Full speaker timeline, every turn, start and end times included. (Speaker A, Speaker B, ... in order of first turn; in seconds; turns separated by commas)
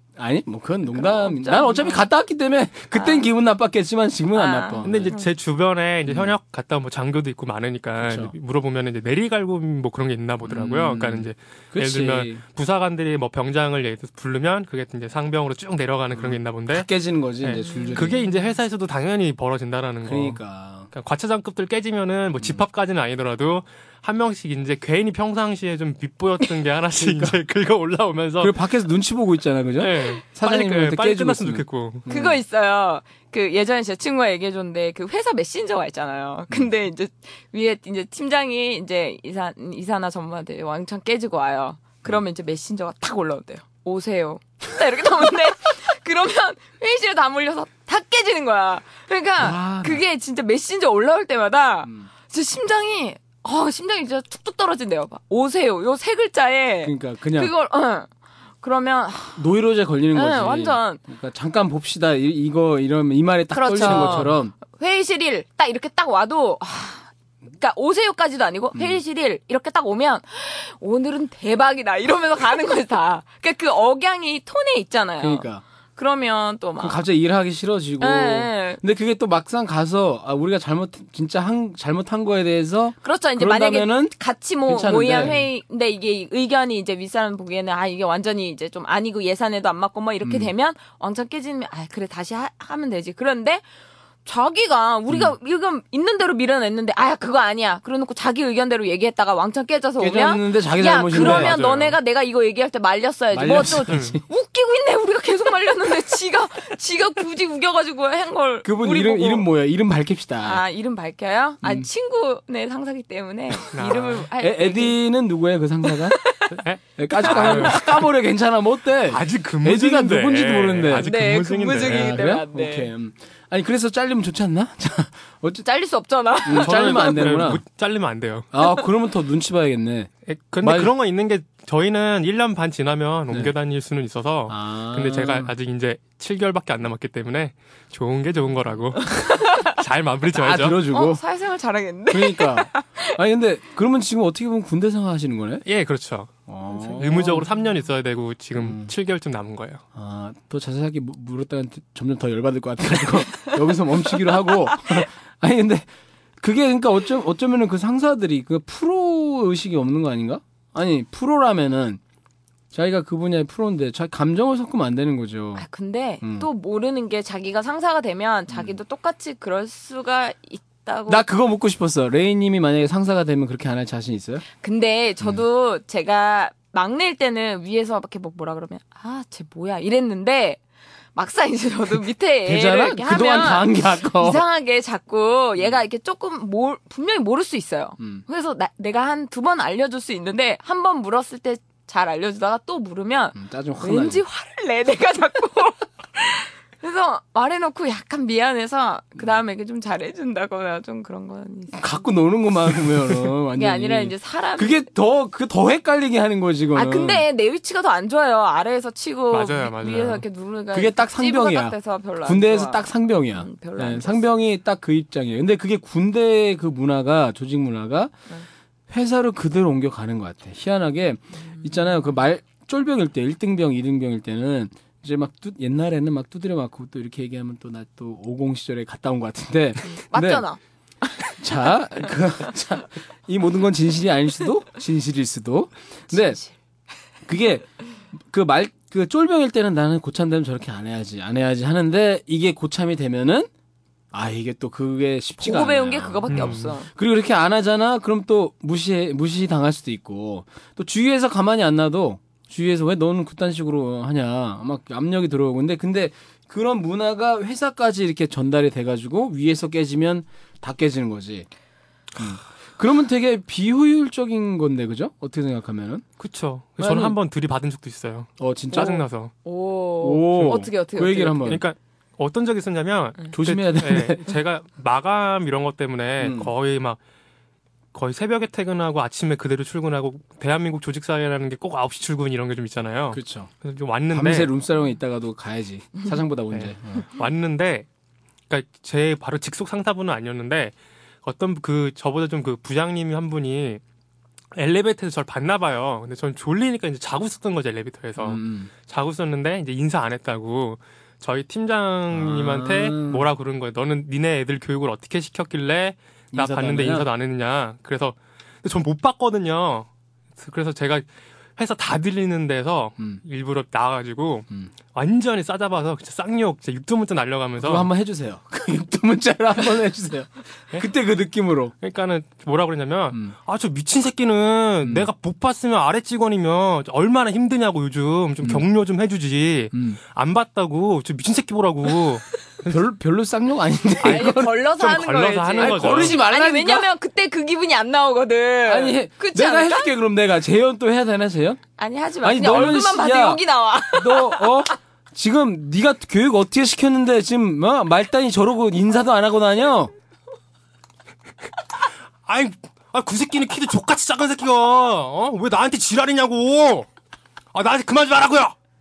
Speaker A: 0.2-5.1, Speaker B: 0.9-2.0, Speaker B: 2.9-3.3, Speaker B: 4.3-5.3, Speaker C: 4.8-16.9, Speaker A: 6.1-6.3, Speaker A: 8.0-8.3, Speaker A: 10.4-12.4, Speaker A: 16.1-18.2, Speaker C: 17.4-20.4, Speaker B: 17.6-18.4, Speaker A: 20.0-20.9, Speaker C: 20.9-28.5, Speaker A: 27.0-27.4, Speaker A: 28.4-32.4, Speaker C: 29.8-32.0, Speaker B: 32.1-58.1, Speaker A: 49.4-50.0, Speaker A: 56.8-57.5, Speaker B: 58.6-59.4, Speaker A: 59.4-64.5, Speaker B: 60.1-61.0, Speaker B: 63.5-77.0, Speaker C: 63.9-64.2, Speaker A: 75.2-75.6, Speaker A: 76.8-84.1, Speaker B: 78.0-78.8, Speaker B: 83.0-93.6, Speaker A: 84.7-85.4, Speaker A: 90.2-90.5, Speaker B: 94.2-109.5, Speaker A: 100.0-101.6, Speaker C: 101.1-101.9, Speaker A: 103.3-104.2, Speaker C: 103.9-104.2, Speaker A: 108.6-110.6, Speaker B: 110.4-115.0, Speaker A: 111.6-111.9, Speaker C: 113.7-114.3, Speaker A: 114.4-116.2, Speaker B: 115.9-116.6, Speaker C: 116.5-118.0, Speaker A: 117.0-121.1, Speaker B: 117.1-118.0, Speaker C: 119.1-122.2, Speaker B: 121.0-122.9, Speaker A: 121.8-125.6, Speaker B: 125.6-127.3, Speaker A: 126.4-127.6, Speaker C: 126.5-128.5, Speaker A: 128.5-130.1, Speaker C: 130.2-140.8, Speaker A: 130.6-130.9, Speaker A: 134.5-135.5, Speaker B: 139.0-139.8, Speaker A: 140.3-141.2, Speaker B: 140.9-143.2, Speaker A: 142.1-145.6, Speaker C: 145.6-146.4, Speaker A: 146.5-147.5, Speaker B: 146.8-147.3, Speaker C: 146.9-149.8, Speaker A: 148.6-148.9, Speaker A: 149.9-155.9, Speaker A: 156.4-162.0, Speaker A: 162.7-165.6, Speaker B: 165.6-171.2, Speaker A: 166.2-166.5, Speaker A: 171.1-174.4, Speaker B: 174.6-180.6, Speaker B: 181.1-202.0, Speaker A: 182.4-184.4, Speaker A: 188.0-188.2, Speaker A: 193.3-194.2, Speaker A: 201.7-207.2, Speaker B: 203.5-204.9, Speaker B: 206.7-214.3, Speaker C: 209.3-210.2, Speaker A: 210.7-218.1, Speaker A: 218.9-230.4, Speaker B: 229.8-231.3, Speaker A: 231.4-236.4, Speaker B: 236.1-236.5, Speaker A: 237.2-243.5, Speaker A: 244.1-261.5, Speaker B: 245.4-246.9, Speaker C: 246.3-246.7, Speaker A: 262.1-266.0, Speaker C: 266.2-269.3, Speaker A: 266.8-267.2, Speaker A: 268.4-269.0, Speaker B: 269.4-271.5, Speaker A: 270.0-271.6, Speaker C: 271.4-277.0, Speaker A: 273.3-274.3, Speaker A: 276.2-276.5, Speaker C: 277.9-284.5, Speaker A: 283.1-283.5, Speaker A: 284.1-287.1, Speaker C: 286.5-287.9, Speaker C: 288.5-293.8, Speaker C: 294.5-311.0, Speaker A: 298.2-298.7, Speaker A: 302.1-303.2, Speaker A: 306.3-307.1, Speaker C: 311.6-317.9, Speaker A: 317.6-321.7, Speaker C: 321.8-332.8, Speaker A: 329.7-330.0, Speaker A: 332.7-334.5, Speaker C: 334.0-336.2, Speaker B: 334.0-339.9, Speaker A: 335.6-336.9, Speaker A: 338.6-341.6, Speaker B: 341.8-344.7, Speaker A: 342.2-349.9, Speaker C: 352.2-356.9, Speaker C: 357.5-358.5